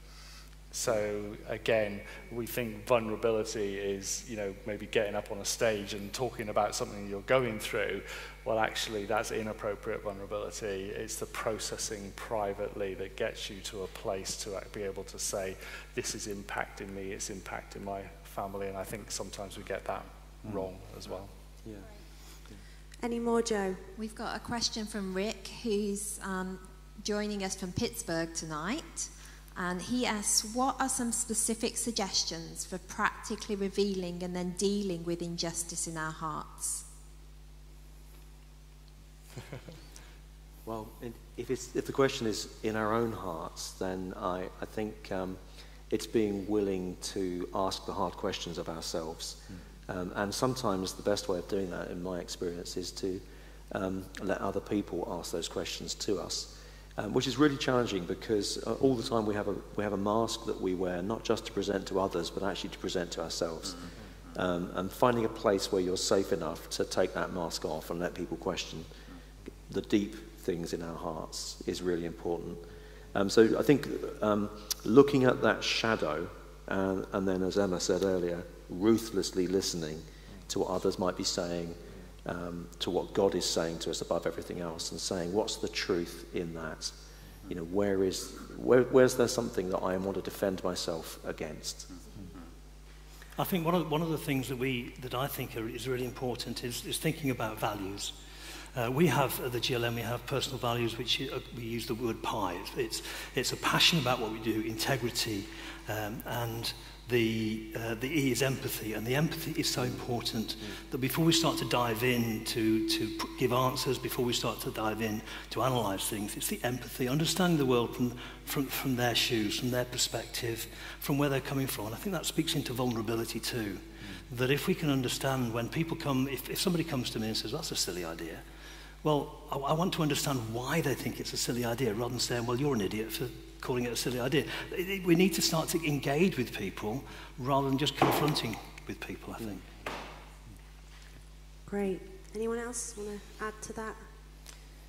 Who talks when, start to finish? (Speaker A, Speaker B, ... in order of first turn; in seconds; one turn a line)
Speaker A: 0.7-21.3
Speaker B: 23.0-23.8
Speaker C: 24.0-36.8
Speaker D: 40.6-45.4
Speaker D: 45.9-68.9
Speaker D: 69.7-91.9
Speaker E: 93.4-98.2
Speaker E: 98.7-128.4
Speaker E: 129.0-139.6
Speaker B: 141.7-144.0